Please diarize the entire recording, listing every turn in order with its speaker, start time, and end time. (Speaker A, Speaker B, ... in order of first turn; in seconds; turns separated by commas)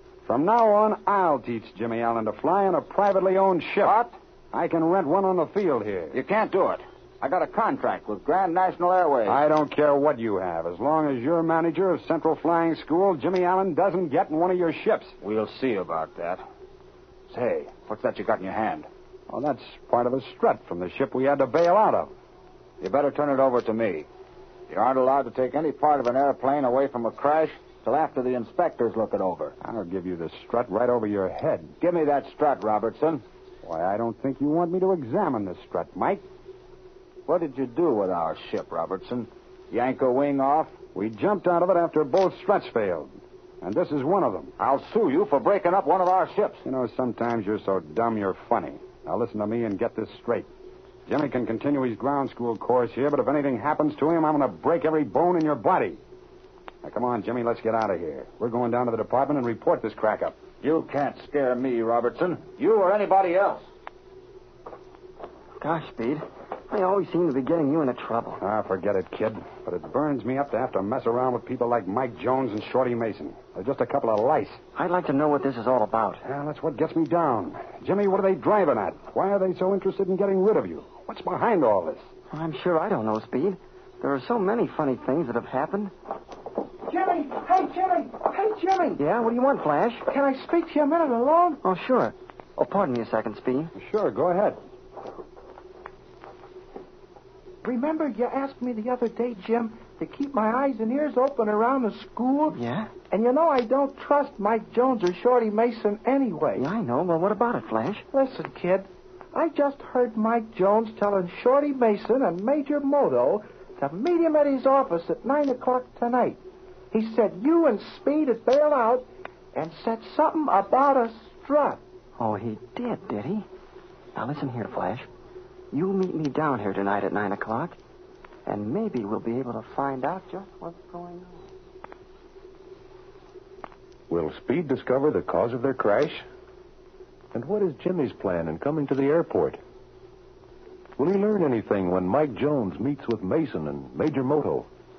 Speaker A: 0.3-6.2, Speaker B: 3.8-4.1, Speaker B: 6.1-9.4, Speaker A: 9.3-15.1, Speaker B: 15.2-16.4, Speaker B: 17.3-18.9, Speaker A: 19.3-22.1, Speaker B: 22.8-24.1, Speaker B: 24.7-29.5, Speaker A: 29.6-31.7, Speaker B: 31.8-33.2, Speaker A: 33.6-36.2, Speaker B: 37.3-40.8, Speaker A: 40.9-44.5, Speaker B: 44.6-46.6, Speaker A: 46.6-50.5, Speaker A: 51.1-56.0, Speaker A: 56.8-60.4, Speaker B: 60.6-63.6, Speaker C: 65.6-68.4, Speaker A: 68.4-74.6, Speaker C: 74.8-76.2, Speaker A: 76.2-82.0, Speaker C: 82.3-85.9, Speaker D: 86.9-89.0, Speaker C: 89.0-90.0, Speaker D: 90.1-91.6, Speaker C: 91.6-93.7, Speaker A: 93.8-94.6, Speaker D: 97.6-106.7, Speaker C: 102.5-103.0, Speaker C: 106.6-108.0, Speaker D: 108.1-116.4, Speaker D: 116.9-121.8, Speaker C: 122.2-123.5, Speaker C: 124.2-125.1, Speaker C: 125.7-127.8, Speaker C: 128.5-131.4, Speaker E: 134.1-136.2, Speaker E: 137.3-139.6, Speaker E: 141.0-144.7